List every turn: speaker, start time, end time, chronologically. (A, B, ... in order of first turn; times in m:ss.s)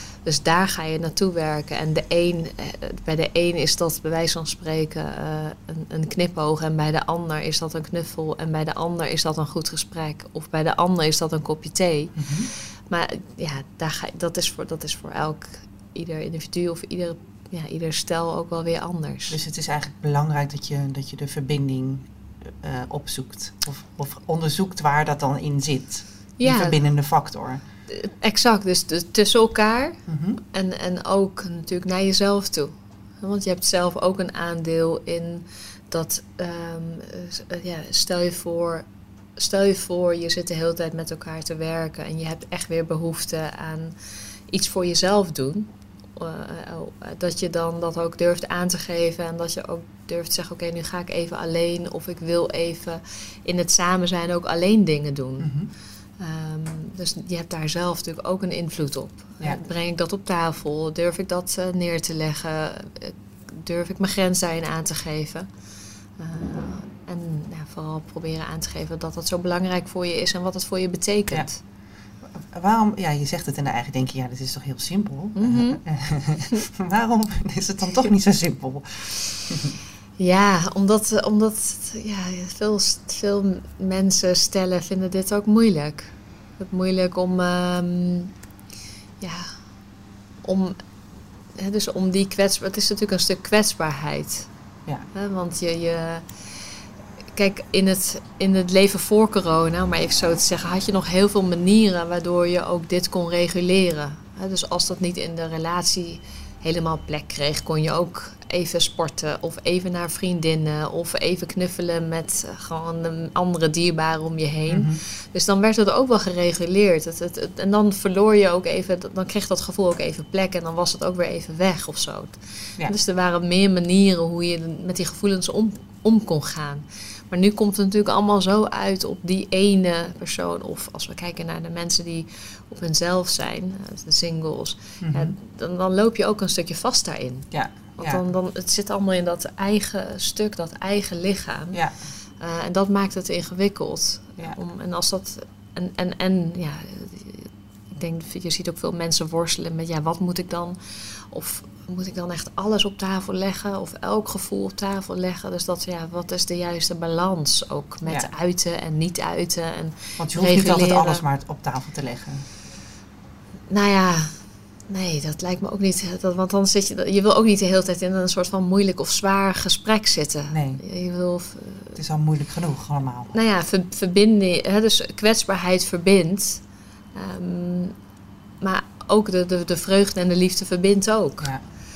0:00.2-0:12.2 A
0:12.2-0:12.5 B
0:12.9-0:19.4 A
0:19.3-0:27.6 B
0:26.4-0:26.8 A
0:27.9-0:30.0 A
0:30.1-0:30.4 B
0:30.5-0:43.9 A
0:44.5-0:55.5 A
0:55.4-0:55.7 B
0:56.2-1:05.5 A
1:06.2-1:11.6 A
1:12.2-1:19.8 B
1:15.4-1:15.8 A
1:20.2-1:28.3 A
1:29.2-1:29.6 A
1:30.4-1:30.8 A
1:31.6-1:34.5 A
1:35.1-1:36.3 A
1:37.3-2:21.8 A
1:54.7-1:55.0 B
2:15.0-2:15.3 B
2:17.5-2:18.2 B
2:22.4-2:41.2 A
2:40.2-2:42.5 B
2:43.7-2:52.0 A
2:50.5-2:50.8 B
2:51.9-2:53.3 B
2:53.3-2:56.6 A
2:57.1-2:57.9 A
2:58.6-3:01.5 A